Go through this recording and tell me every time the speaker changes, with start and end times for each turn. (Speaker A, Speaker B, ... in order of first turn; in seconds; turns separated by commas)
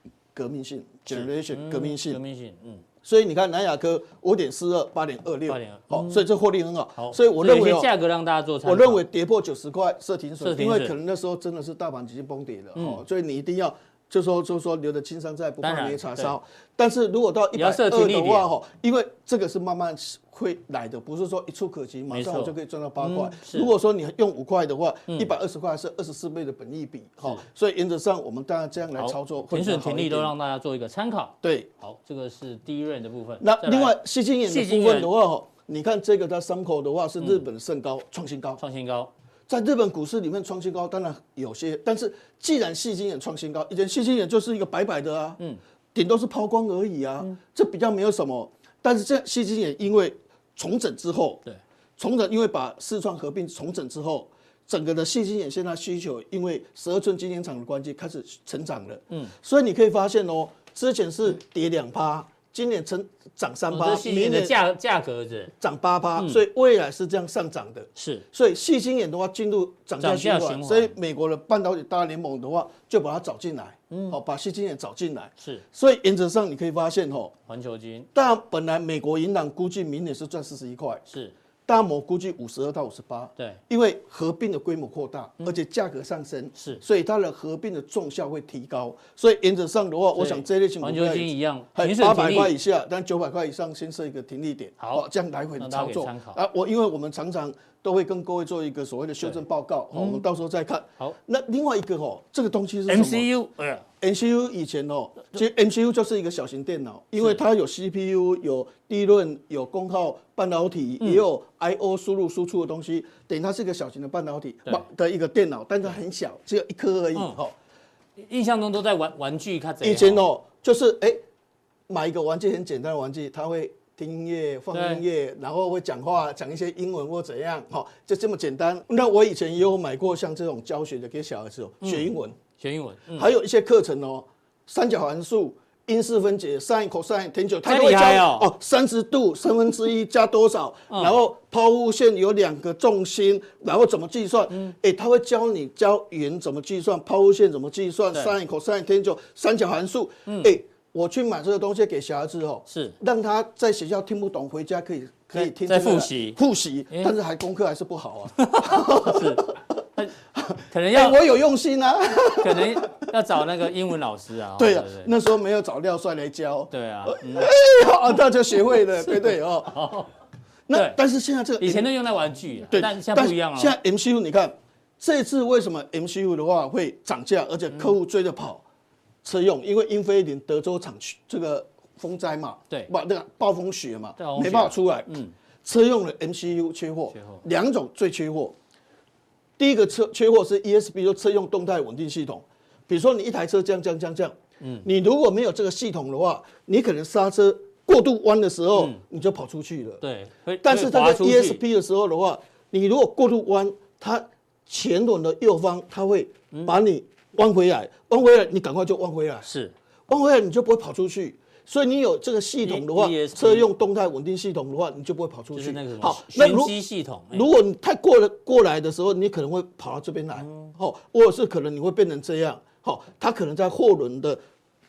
Speaker A: 0.3-2.2, Speaker B: 1.1-2.8, Speaker A: 3.0-7.9, Speaker B: 5.5-6.2, Speaker B: 7.0-9.0, Speaker A: 8.6-30.3, Speaker B: 10.4-10.9, Speaker B: 12.8-13.0, Speaker B: 15.6-16.4, Speaker B: 17.6-18.5, Speaker B: 22.1-23.7, Speaker B: 29.0-35.1, Speaker A: 31.4-31.7, Speaker A: 33.4-38.6, Speaker B: 38.6-39.1, Speaker A: 39.5-45.4, Speaker A: 45.9-51.4, Speaker A: 52.0-64.6, Speaker B: 63.7-65.5, Speaker A: 65.6-77.3, Speaker B: 68.0-68.2, Speaker B: 70.0-70.9, Speaker B: 73.9-74.2, Speaker B: 75.4-75.6, Speaker B: 77.5-78.1, Speaker A: 78.1-81.0, Speaker B: 81.1-81.3, Speaker A: 81.7-103.3, Speaker B: 86.5-86.8, Speaker B: 90.2-92.5, Speaker B: 94.8-95.1, Speaker B: 95.6-96.4, Speaker B: 99.9-100.2, Speaker B: 102.9-103.8, Speaker A: 104.0-117.5, Speaker B: 118.2-120.3, Speaker A: 119.8-121.2, Speaker A: 121.9-132.4, Speaker B: 124.7-125.0, Speaker B: 131.8-133.3, Speaker A: 133.1-159.6, Speaker B: 137.6-138.5, Speaker B: 140.9-141.1, Speaker B: 150.3-150.5, Speaker B: 152.7-153.0, Speaker B: 155.3-156.4, Speaker B: 156.9-157.2, Speaker B: 158.4-160.1, Speaker A: 160.3-163.1, Speaker B: 160.7-161.2, Speaker B: 162.4-165.1, Speaker A: 164.6-169.9, Speaker B: 166.7-167.5, Speaker B: 169.0-170.1, Speaker A: 170.7-171.9, Speaker B: 170.7-171.0, Speaker B: 171.6-173.8, Speaker A: 172.7-178.6, Speaker A: 179.2-188.6, Speaker B: 184.2-185.3, Speaker B: 187.1-187.4, Speaker A: 189.6-200.0, Speaker B: 194.6-194.9, Speaker B: 198.8-199.0, Speaker B: 200.0-201.6, Speaker A: 200.6-209.5, Speaker B: 209.4-209.8, Speaker A: 210.1-216.8, Speaker B: 212.6-213.7, Speaker B: 215.5-217.5, Speaker A: 217.3-224.4, Speaker B: 220.4-220.7